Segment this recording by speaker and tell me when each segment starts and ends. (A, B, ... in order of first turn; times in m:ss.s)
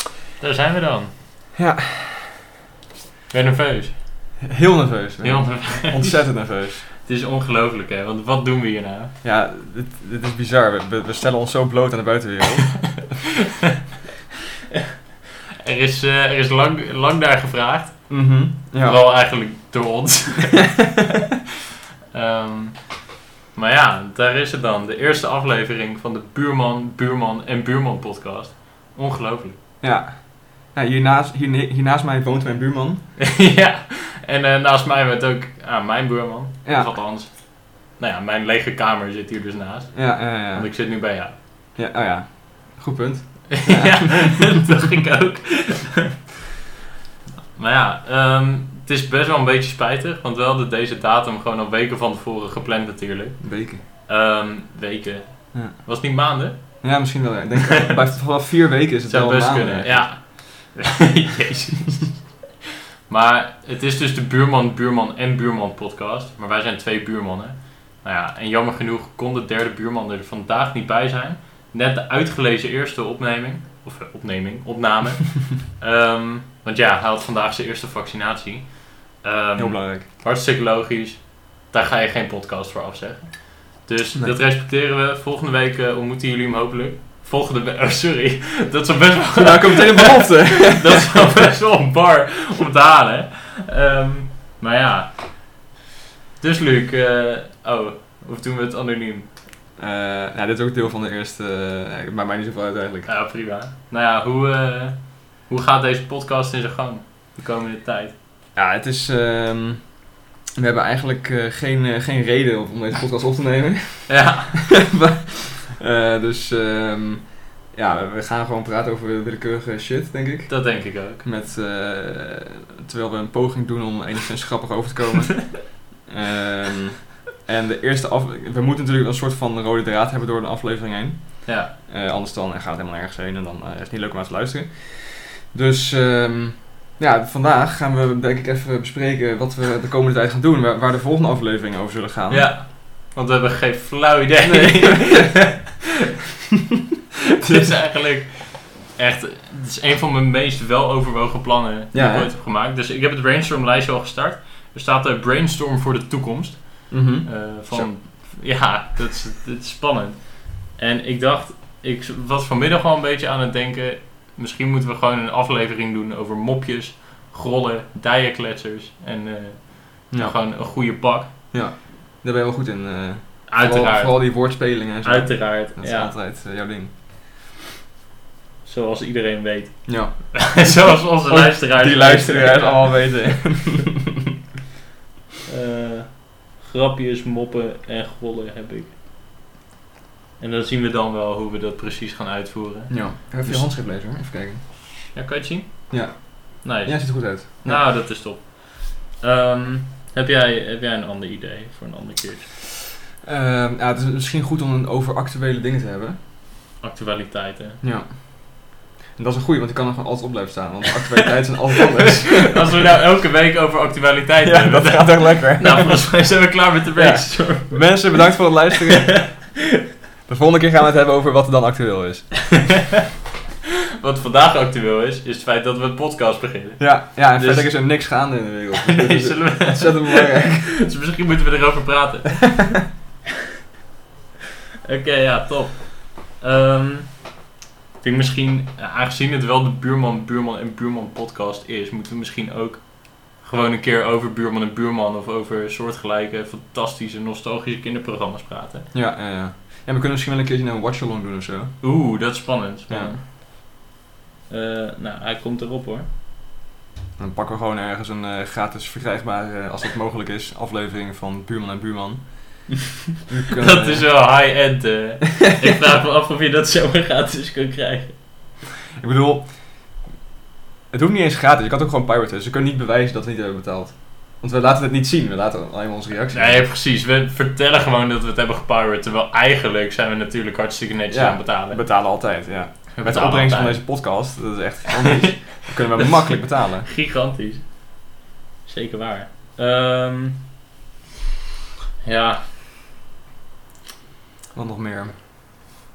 0:00.4-0:01.1 A
0:01.6-0:02.4 B
0:03.3-0:04.0 A
0:04.4-0:06.9 B
0:05.2-0:09.1 A
0:09.2-0:13.2 B
0:15.6-0:20.8 A
0:18.1-0:19.0 B
0:20.8-0:21.1 B
0:22.1-0:29.6 A
0:29.8-0:33.1 B
0:33.2-0:41.4 A
0:36.6-0:36.9 B
0:39.9-0:40.7 B
0:41.8-0:44.4 B
0:43.5-0:46.1 A
0:47.5-0:56.9 A
0:53.4-0:53.8 B
0:56.8-1:00.1 B
0:57.8-0:58.2 A
0:59.1-1:02.4 A
1:03.1-1:35.5 A
1:19.6-1:20.1 B
1:29.4-1:31.2 B
1:36.4-1:39.3 A
1:39.8-1:43.1 B
1:43.1-1:48.2 A
1:48.6-2:22.5 B
1:54.1-1:54.7 A
2:00.5-2:01.2 A
2:11.4-2:11.7 A
2:22.3-2:25.7 A
2:24.4-2:25.6 B
2:27.4-2:51.3 A
2:31.9-2:32.3 B
2:36.9-2:37.9 B
2:50.1-2:57.0 B
2:53.5-2:56.1 A
2:58.6-3:03.5 A
2:59.9-3:04.0 B
3:05.5-3:08.9 A
3:10.4-3:13.8 A
3:12.9-3:14.6 B
3:15.1-3:22.5 A
3:15.9-3:17.8 B
3:23.2-3:26.2 B
3:26.8-3:27.8 A
3:27.8-3:32.8 B
3:32.1-3:38.2 A
3:34.4-3:39.6 B
3:39.1-3:39.3 A
3:40.3-3:42.8 B
3:44.0-3:47.8 A
3:46.8-3:50.7 B
3:48.8-3:52.8 A
3:54.9-3:57.5 A
3:58.0-4:08.9 A
4:08.9-4:13.2 B
4:11.8-4:13.2 A
4:14.5-4:16.1 A
4:17.2-4:22.7 B
4:23.3-4:24.6 B
4:23.6-4:28.2 A
4:29.0-4:29.9 B
4:30.9-4:36.6 B
4:36.3-4:41.9 A
4:41.1-4:46.9 B
4:43.0-4:43.8 A
4:45.2-4:45.5 A
4:46.8-4:50.5 A
4:52.0-4:52.5 A
4:54.6-4:55.6 B